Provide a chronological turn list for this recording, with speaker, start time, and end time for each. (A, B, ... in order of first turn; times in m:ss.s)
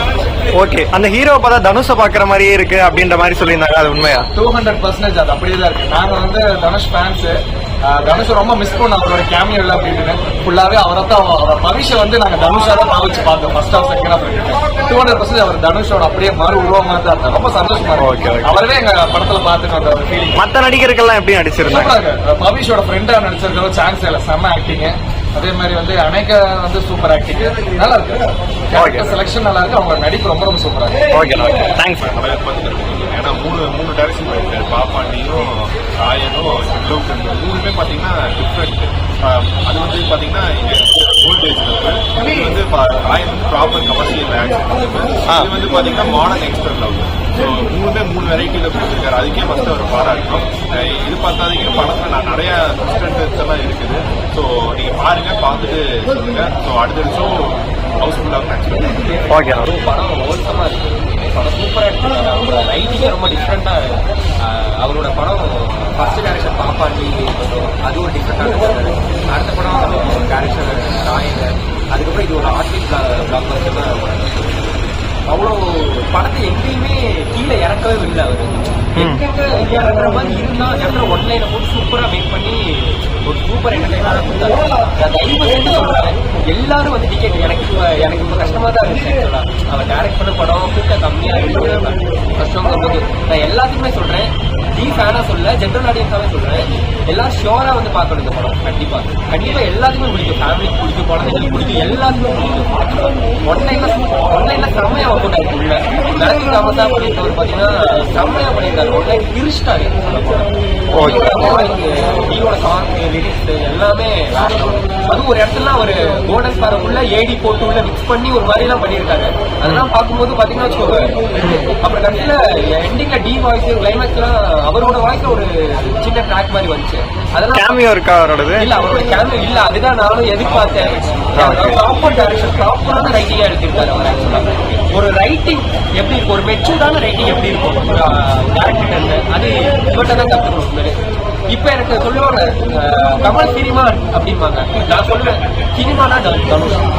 0:00.5-0:04.3 A
0:04.4-0:20.4 B
0:18.0-0:18.5 A
0:20.4-0:21.9 A
0:21.7-0:31.0 B
0:28.8-0:29.1 A
0:31.1-0:32.2 A
0:32.0-0:59.1 C
0:59.1-2:07.9 D
0:59.3-0:59.6 A
1:19.0-1:19.2 A
1:51.0-1:51.3 A
2:01.4-2:01.7 A
2:07.5-2:08.7 A
2:08.5-2:26.9 D
2:11.4-2:11.8 A